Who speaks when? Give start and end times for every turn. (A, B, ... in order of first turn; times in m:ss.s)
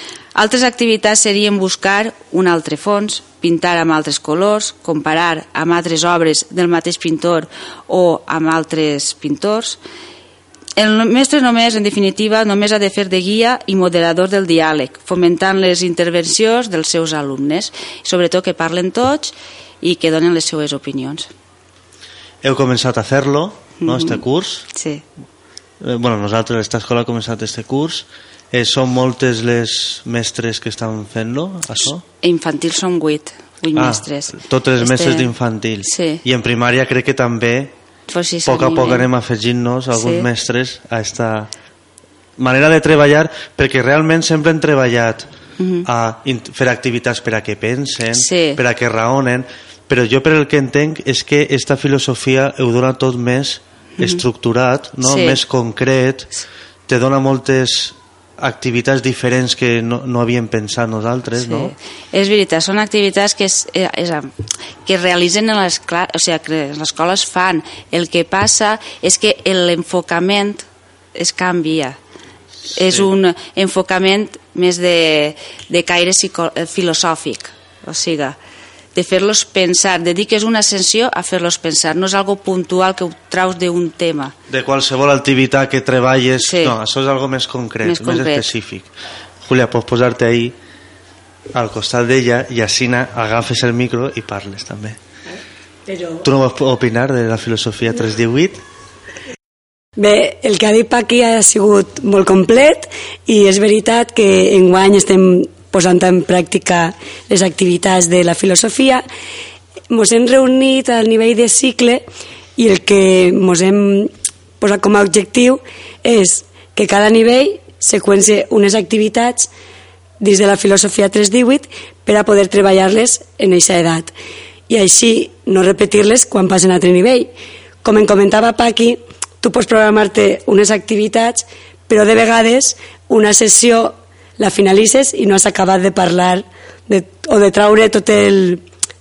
0:00.3-0:09.8 A
0:10.8-0:21.3 A
0:22.4-0:24.6 B
0:23.8-0:24.2 A
0:24.7-0:25.0 A
0:25.8-0:32.0 B
0:32.2-0:35.3 A
0:33.7-0:37.7 B
0:35.8-0:36.2 A
0:38.1-0:39.1 A
0:38.5-0:41.5 B
0:39.9-0:40.3 A
0:42.4-0:45.3 B
0:45.6-0:45.8 A
0:45.8-0:56.3 B
0:48.1-0:48.6 A
0:55.0-0:55.4 A
0:56.9-1:01.7 B
1:01.4-1:04.3 A
1:04.8-1:12.0 A
1:12.7-1:18.4 A
1:18.9-1:24.3 A
1:24.5-1:28.9 B
1:26.4-1:26.7 A
1:27.8-1:28.5 A
1:29.4-1:30.5 B
1:31.5-1:35.0 B
1:35.9-1:36.2 C
1:36.2-1:38.6 B
1:40.0-1:49.0 C
1:49.9-1:52.0 C
1:52.6-1:59.5 C
2:00.2-2:04.1 C
2:04.7-2:07.3 C
2:07.8-2:18.6 C